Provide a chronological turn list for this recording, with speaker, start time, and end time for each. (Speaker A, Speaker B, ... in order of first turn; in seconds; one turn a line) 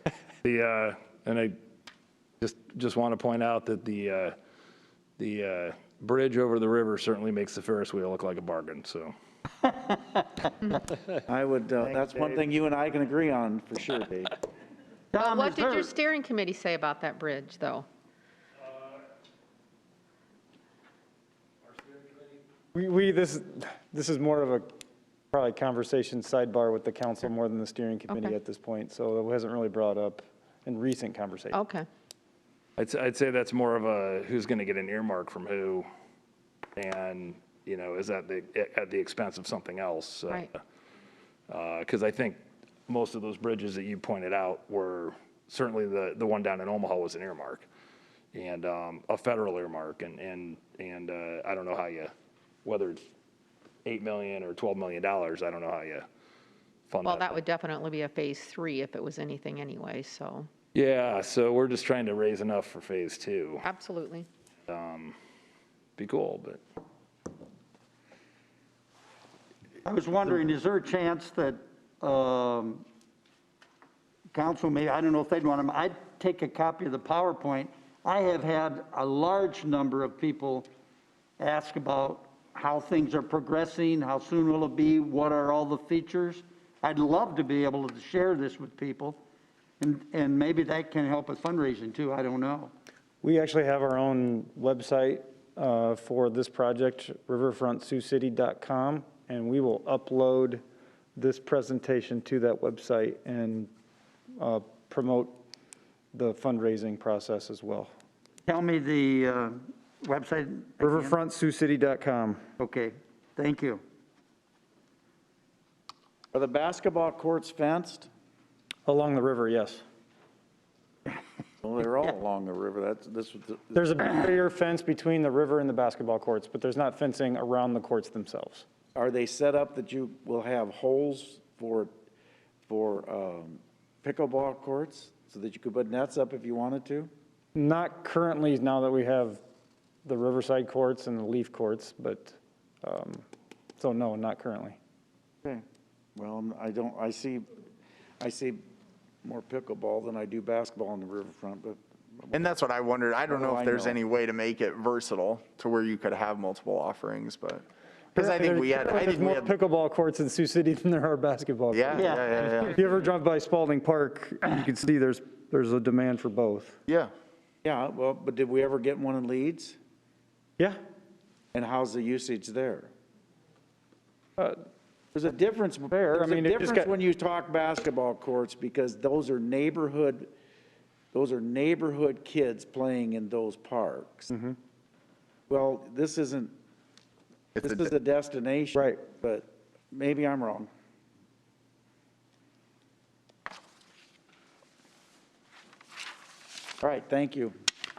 Speaker A: 0.4-1.6
Speaker A: 2.4-4.3
Speaker A: 5.2-9.1
Speaker B: 9.6-10.5
Speaker C: 11.3-14.4
Speaker B: 15.1-15.9
Speaker D: 15.1-17.9
Speaker E: 22.8-24.7
Speaker E: 25.3-31.6
Speaker D: 31.5-31.9
Speaker A: 32.8-35.9
Speaker A: 36.8-40.5
Speaker A: 41.5-47.7
Speaker A: 48.3-52.1
Speaker A: 52.6-53.0
Speaker A: 53.8-56.0
Speaker A: 56.9-57.4
Speaker D: 57.0-60.5
Speaker A: 60.7-63.6
Speaker D: 63.6-64.3
Speaker A: 64.7-65.1
Speaker A: 66.0-66.6
Speaker B: 69.8-72.8
Speaker B: 74.3-80.7
Speaker B: 81.4-89.2
Speaker B: 89.8-92.7
Speaker E: 93.2-100.6
Speaker E: 101.2-103.7
Speaker E: 104.4-105.4
Speaker E: 106.1-107.9
Speaker B: 108.5-111.1
Speaker E: 110.8-112.4
Speaker B: 112.6-113.8
Speaker C: 116.3-118.1
Speaker E: 118.9-119.8
Speaker C: 121.6-123.8
Speaker E: 123.7-128.6
Speaker C: 128.9-131.9
Speaker C: 132.7-137.1
Speaker E: 137.6-139.4
Speaker E: 140.0-143.2
Speaker E: 143.8-144.8
Speaker C: 146.2-147.5
Speaker C: 148.2-148.6
Speaker C: 149.2-152.5
Speaker F: 152.3-159.5
Speaker C: 153.3-154.0
Speaker E: 158.2-166.8
Speaker F: 161.7-162.8
Speaker B: 161.9-162.6
Speaker F: 166.9-167.1
Speaker C: 167.6-169.8
Speaker C: 171.5-172.9
Speaker C: 175.1-180.3
Speaker E: 175.9-176.9
Speaker C: 181.1-184.3
Speaker C: 185.5-186.5
Speaker C: 187.6-190.7
Speaker F: 187.6-187.9
Speaker C: 196.8-197.5